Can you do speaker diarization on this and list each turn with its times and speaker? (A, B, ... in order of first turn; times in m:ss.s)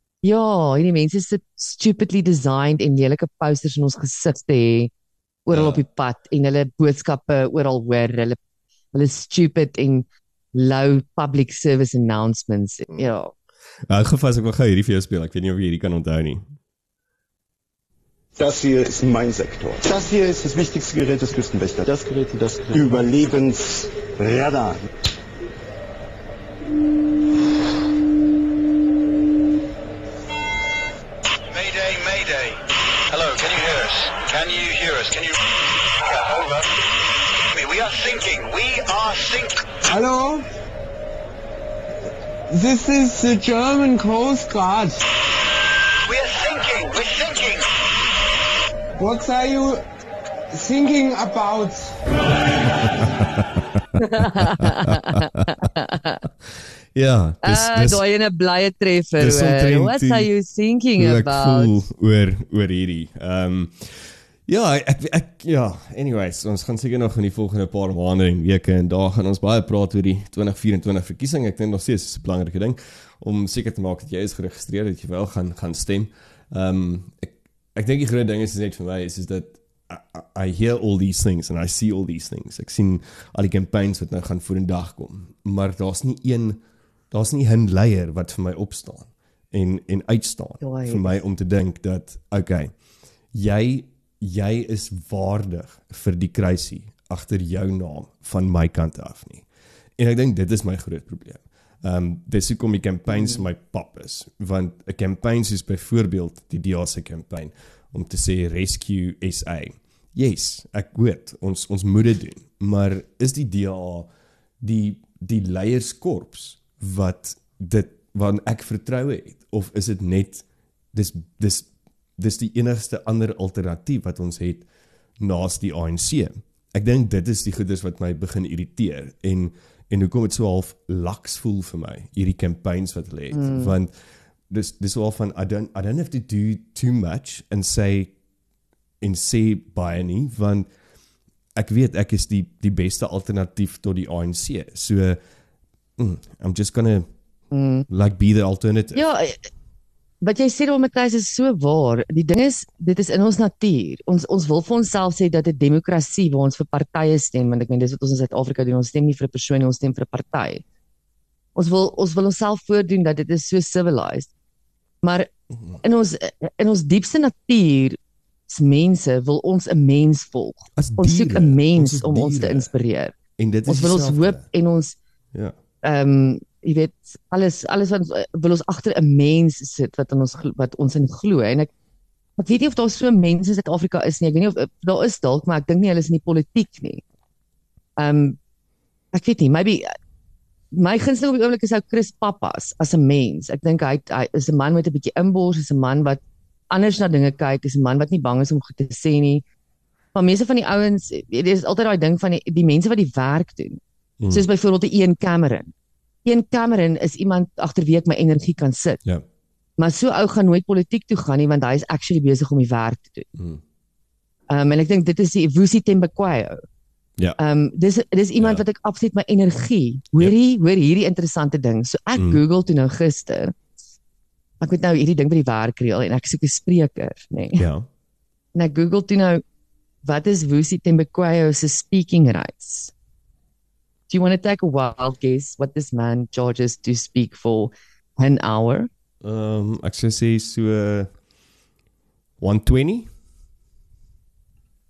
0:00.2-0:04.9 A
0:05.5-0:08.4 A
0:05.5-0:05.8 B
0:08.9-0:13.3 A
0:13.9-0:16.4 B
0:18.4-0:24.9 C
0:31.5-0:35.4 D
0:36.0-0:36.7 D
0:37.5-0:39.7 D
0:39.9-0:40.5 E
0:42.5-0:45.0 E
0:46.1-0:47.7 D
0:49.0-0:49.8 E
0:50.5-0:52.3 E
0:52.8-0:55.7 B
0:54.0-0:56.2 A
0:57.0-0:58.0 B
0:57.4-1:01.8 A
0:59.2-1:00.3 B
1:01.0-1:26.6 B
1:27.1-1:32.7 B
1:30.6-1:31.2 A
1:33.3-1:39.5 B
1:40.0-1:54.1 B
1:43.1-1:43.4 A
1:54.6-2:04.7 B
2:05.2-2:13.9 B
2:13.3-2:13.8 A
2:14.5-2:18.1 B
2:19.0-2:20.7 B
2:21.6-2:25.2 B
2:26.0-2:27.1 B
2:27.5-2:27.9 A
2:27.9-2:29.0 B
2:28.9-2:29.4 A
2:30.2-2:40.6 A
2:41.6-2:44.3 A
2:45.0-2:45.3 A
2:45.8-2:55.0 A
2:50.8-2:52.7 B
2:53.4-2:54.4 B
2:55.8-3:01.7 A
3:02.4-3:07.0 A
3:08.0-3:08.4 A
3:09.1-3:09.9 A
3:10.7-3:19.4 A
3:20.1-3:25.7 A
3:24.2-3:24.5 B
3:26.2-3:29.0 A
3:29.8-3:33.3 A
3:34.5-3:36.6 A
3:37.4-3:43.5 A
3:38.4-3:38.6 B
3:42.2-3:42.4 B
3:44.6-3:47.7 A
3:47.6-3:47.9 B
3:48.6-3:49.4 A
3:50.0-3:52.9 A
3:54.1-3:58.9 A
3:59.2-4:01.1 B
4:02.4-4:03.1 B